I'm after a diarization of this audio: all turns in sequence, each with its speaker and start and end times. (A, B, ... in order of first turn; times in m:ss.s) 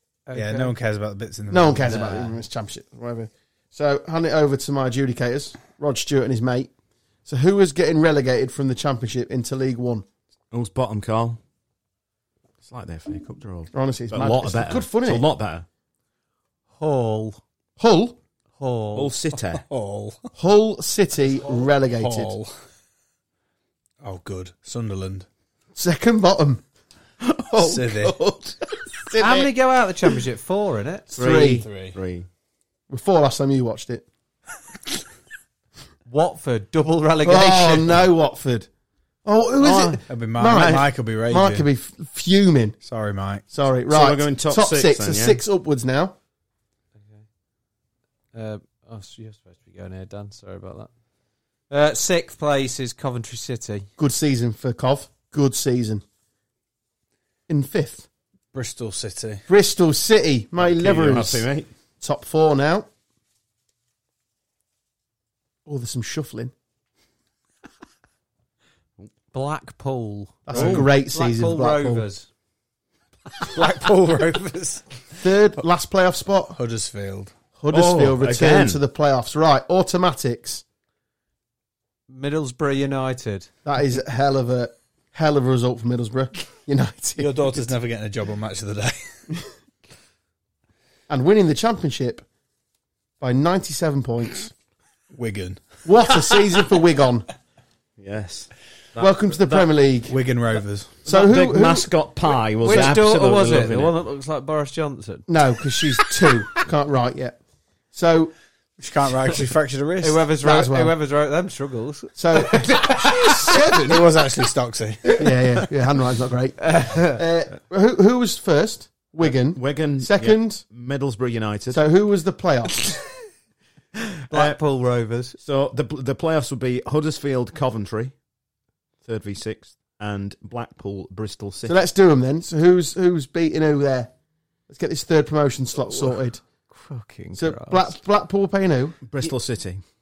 0:00.3-0:00.7 A
0:00.3-0:02.2 B
0:01.5-0:06.7 C
0:01.8-0:02.3 A
0:07.3-0:10.0 C
0:10.5-0:11.4 D
0:12.6-0:15.7 D
0:13.7-0:15.3 C
0:16.8-0:17.4 A
0:17.8-0:18.2 C
0:18.6-0:19.1 A
0:18.9-0:19.6 D
0:19.6-0:20.2 B
0:20.4-0:22.3 C
0:21.4-0:22.5 B
0:24.0-0:25.3 B
0:25.8-0:26.6 C
0:27.2-0:28.9 D
0:27.6-0:28.2 B
0:29.1-0:29.5 C
0:29.1-0:31.1 A
0:31.1-0:31.7 C
0:31.2-0:32.3 D
0:31.5-0:32.0 B
0:32.9-0:34.0 C
0:36.1-0:38.1 A
0:37.2-0:38.7 C
0:39.2-0:42.8 C
0:39.6-0:41.7 B
0:42.8-0:43.4 B
0:43.5-0:46.2 C
0:43.9-0:45.4 D
0:48.3-0:50.9 A
0:51.7-0:53.9 A
0:54.0-0:56.0 C
0:57.5-0:58.1 C
0:58.5-0:59.4 B
0:59.5-1:01.5 C
1:00.6-1:01.7 D
1:02.0-1:02.9 C
1:05.7-1:06.5 C
1:09.3-1:12.3 A
1:10.5-1:12.0 C
1:10.5-1:10.9 B
1:13.4-1:15.2 B
1:15.2-1:16.6 C
1:16.6-1:17.3 B
1:17.6-1:20.6 C
1:17.7-1:18.8 D
1:22.1-1:23.5 A
1:23.6-1:27.7 C
1:27.2-1:29.1 B
1:31.1-1:32.2 C
1:33.2-1:34.5 C
1:35.1-1:35.8 B
1:35.8-1:37.3 C
1:38.0-1:39.7 D
1:39.0-1:40.2 C
1:40.1-1:41.0 B
1:41.0-1:41.9 C
1:41.1-1:44.0 D
1:42.6-1:45.3 A
1:42.7-1:43.0 C
1:45.3-1:47.4 C
1:47.9-1:48.3 C
1:48.8-1:50.2 B
1:50.0-1:52.7 A
1:50.4-1:50.9 C
1:52.2-1:54.0 C
1:53.0-1:55.3 B
1:55.2-2:00.6 C
1:56.6-1:57.2 A
1:59.2-2:01.8 D
2:01.7-2:02.9 C
2:04.3-2:05.4 A
2:04.3-2:04.6 D
2:05.4-2:08.1 D
2:09.0-2:11.7 D
2:11.7-2:14.1 C
2:14.7-2:16.4 C
2:16.7-2:17.9 A
2:17.4-2:19.0 C
2:19.0-2:19.8 D